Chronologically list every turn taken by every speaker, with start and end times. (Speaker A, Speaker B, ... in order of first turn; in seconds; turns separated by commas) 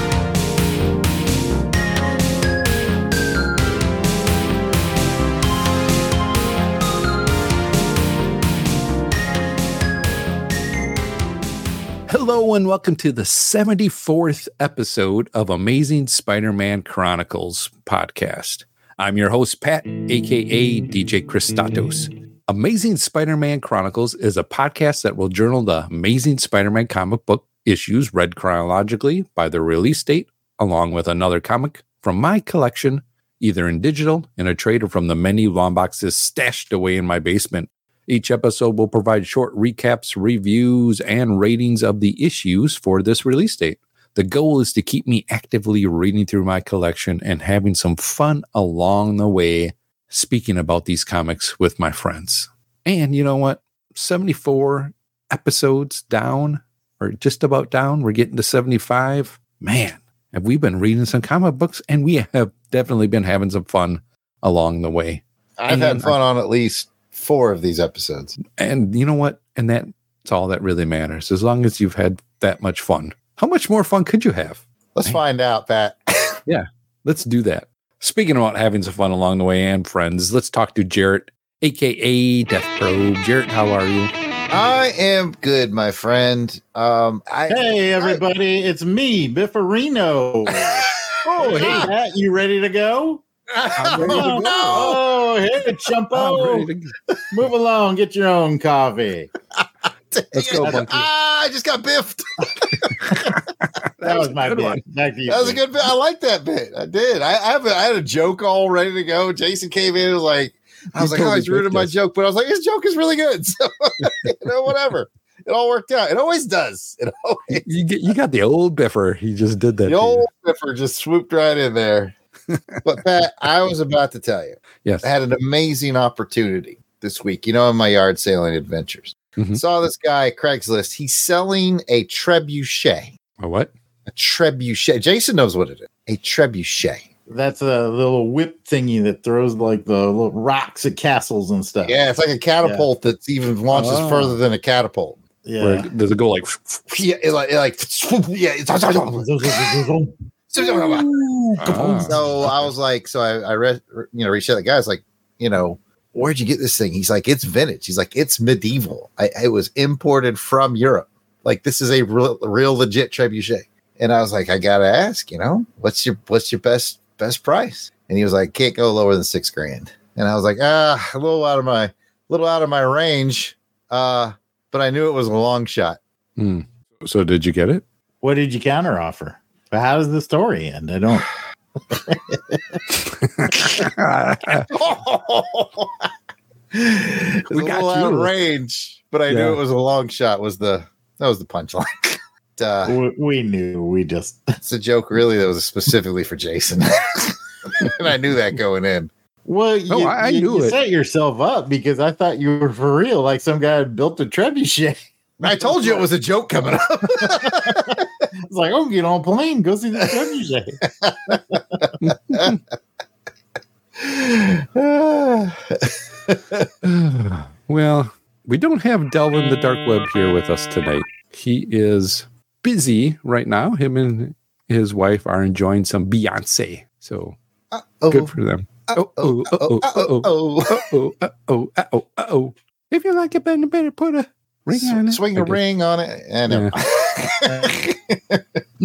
Speaker A: 12.1-66.2, Speaker B: 65.6-68.3, Speaker A: 68.6-75.2, Speaker B: 74.9-76.4, Speaker A: 76.5-84.1, Speaker B: 84.5-88.2, Speaker C: 87.5-93.2, Speaker B: 90.6-91.9, Speaker A: 91.3-91.9, Speaker B: 93.5-95.0, Speaker A: 93.8-94.9, Speaker C: 93.8-96.7, Speaker A: 96.1-96.9, Speaker C: 97.3-99.3, Speaker B: 100.1-103.3, Speaker A: 100.3-101.1, Speaker C: 100.6-100.8, Speaker A: 103.8-104.8, Speaker C: 104.0-105.6, Speaker B: 105.3-117.6, Speaker A: 111.0-111.9, Speaker A: 117.5-120.2, Speaker B: 119.8-122.1, Speaker A: 122.5-122.8, Speaker B: 122.8-133.1, Speaker A: 133.4-133.7, Speaker B: 134.1-137.1, Speaker C: 137.3-142.0, Speaker B: 141.8-145.2, Speaker C: 142.6-142.9, Speaker A: 143.7-144.4, Speaker C: 145.4-145.9, Speaker A: 145.6-146.9, Speaker B: 146.9-149.8, Speaker C: 149.1-152.1, Speaker B: 150.5-176.0, Speaker A: 151.6-152.3, Speaker A: 176.4-177.8, Speaker C: 178.2-181.3, Speaker C: 181.9-182.6, Speaker A: 183.1-184.7, Speaker B: 184.7-186.1, Speaker B: 186.7-192.9, Speaker A: 187.5-188.3, Speaker A: 189.3-189.6, Speaker C: 192.8-194.6, Speaker B: 194.6-199.1, Speaker C: 199.4-206.1, Speaker A: 199.9-200.8, Speaker B: 205.4-208.0, Speaker C: 207.1-211.6, Speaker B: 211.0-212.5, Speaker A: 212.0-212.6, Speaker B: 214.0-217.4, Speaker A: 217.7-227.4, Speaker B: 227.7-228.3, Speaker A: 228.1-235.6, Speaker B: 228.9-230.9, Speaker B: 234.7-238.6, Speaker A: 236.5-236.7